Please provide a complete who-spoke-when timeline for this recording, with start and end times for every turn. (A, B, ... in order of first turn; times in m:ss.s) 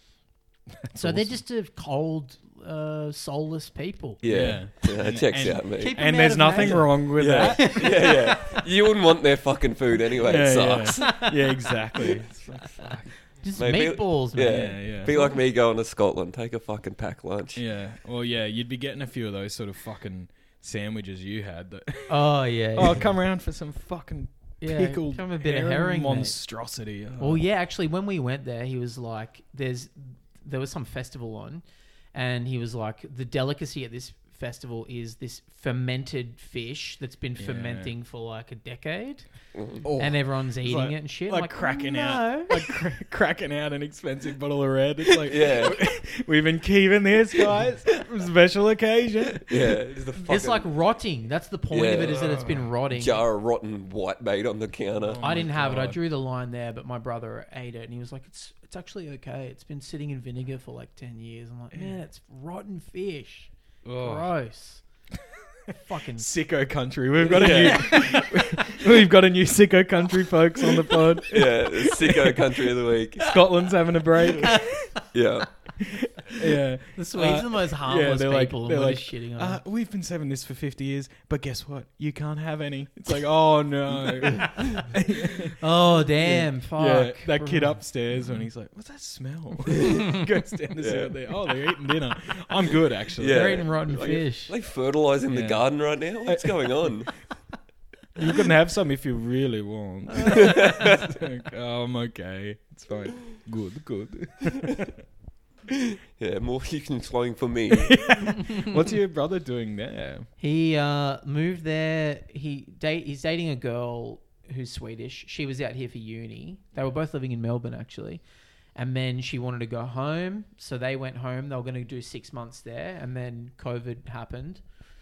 0:00.8-0:01.4 A
0:01.0-0:04.2 B
0:04.2-0:06.0 C
0:04.3-0:08.0 A
0:05.8-0:08.6 B
0:06.5-0:11.2 C
0:10.2-0:13.1 A
0:11.0-0:15.3 B
0:13.6-0:17.6 C
0:14.5-0:15.2 A
0:17.6-0:27.4 A
0:22.1-0:23.1 B
0:24.6-0:26.4 B
0:27.2-0:31.6 B
0:32.1-0:39.3 B
0:37.4-0:37.9 A
0:39.6-0:39.8 C
0:39.8-0:49.7 A
0:40.0-0:42.8 B
0:45.3-0:45.8 C
0:49.5-0:50.7 C
0:50.2-0:53.2 B
0:51.7-0:52.4 C
0:52.0-0:52.7 A
0:52.9-0:55.2 C
0:55.0-0:56.0 A
0:55.2-1:04.8 B
1:01.7-1:02.0 A
1:03.8-1:04.3 A
1:05.3-1:14.8 A
1:05.7-1:06.3 B
1:07.2-1:08.1 C
1:07.3-1:08.7 B
1:11.3-1:13.3 C
1:14.3-1:15.1 B
1:15.1-1:15.5 C
1:15.8-1:33.7 A
1:16.3-1:19.6 B
1:25.6-1:27.8 B
1:30.8-1:31.1 C
1:33.2-1:37.1 C
1:33.3-1:34.5 B
1:35.3-1:35.6 A
1:36.2-1:37.0 A
1:38.1-1:45.0 A
1:40.2-1:40.7 B
1:40.3-1:41.0 C
1:46.2-1:48.1 C
1:47.7-1:50.3 A
1:50.4-1:58.2 B
1:58.8-2:04.6 B